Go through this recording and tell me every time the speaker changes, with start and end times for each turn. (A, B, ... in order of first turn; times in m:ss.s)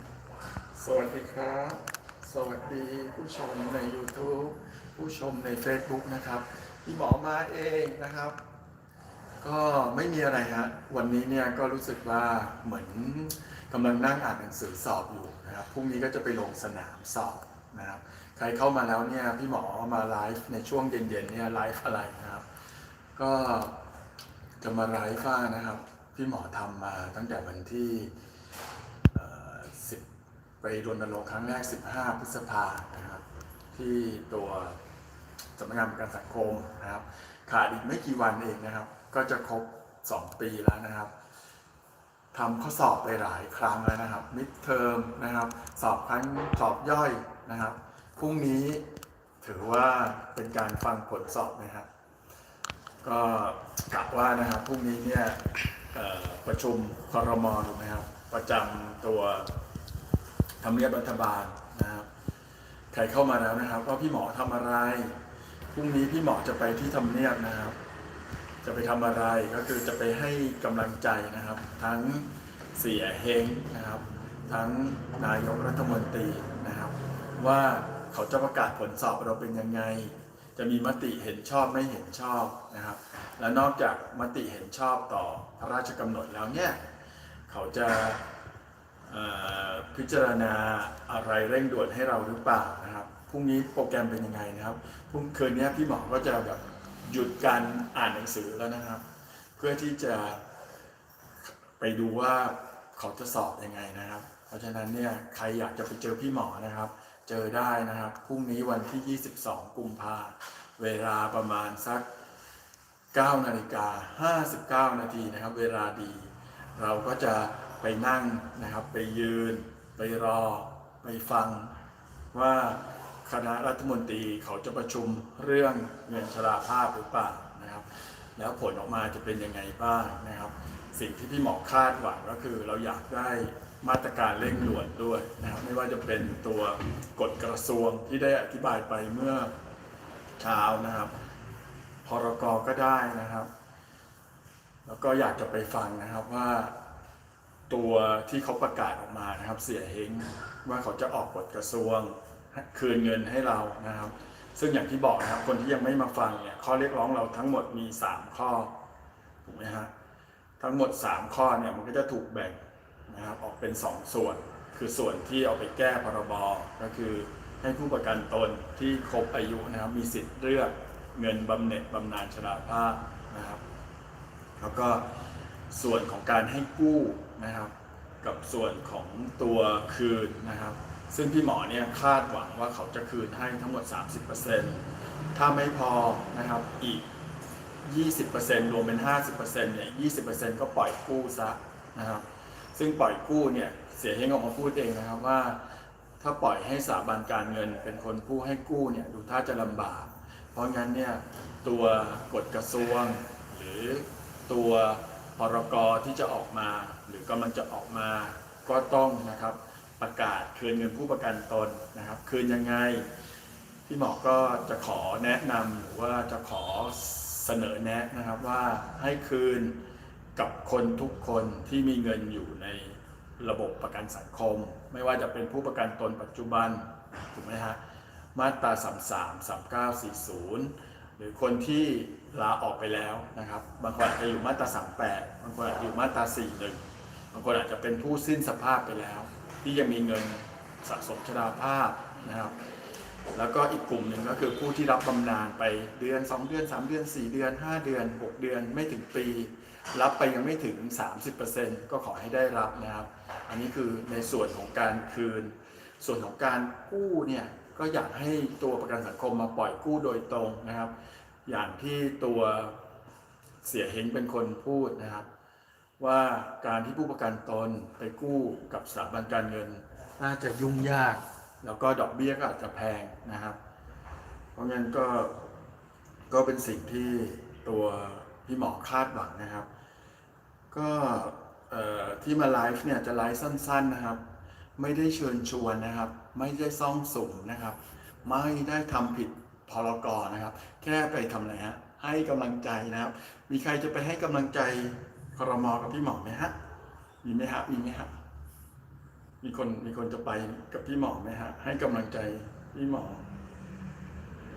0:00.7-0:08.4 A
0:09.4-0:22.4 A
0:23.1-0:23.8 A
0:24.6-0:28.1 A
0:29.1-0:30.0 A
0:30.6-0:34.8 A
0:35.6-0:41.1 A
0:42.3-0:48.8 A
0:49.4-0:51.9 A
0:53.0-0:59.5 A
1:00.6-1:02.1 A
1:02.9-1:05.2 A
1:05.7-1:07.8 A
1:08.6-1:26.8 A
1:27.5-1:28.3 A
1:29.0-1:39.0 A
1:39.6-1:40.4 A
1:41.4-1:52.0 A
1:53.1-2:01.7 A
2:02.3-2:19.5 A
2:20.4-2:21.1 A
2:22.0-2:23.5 A
2:24.8-2:26.7 A
2:27.7-2:38.7 A
2:39.4-2:39.9 A
2:40.6-2:53.6 A
2:54.6-2:55.1 A
2:55.7-3:07.1 A
3:07.8-3:15.7 A
3:16.2-3:33.0 A
3:33.8-3:39.8 A
3:40.4-3:47.8 A
3:48.3-3:56.8 A
3:57.3-4:02.5 A
4:03.3-4:20.9 A
4:21.4-4:22.8 A
4:23.6-4:25.2 A
4:26.0-4:33.6 A
4:34.6-4:35.5 A
4:36.3-4:39.7 A
4:40.7-4:44.2 A
4:44.8-4:56.5 A
4:57.2-4:58.1 A
4:59.4-5:03.2 A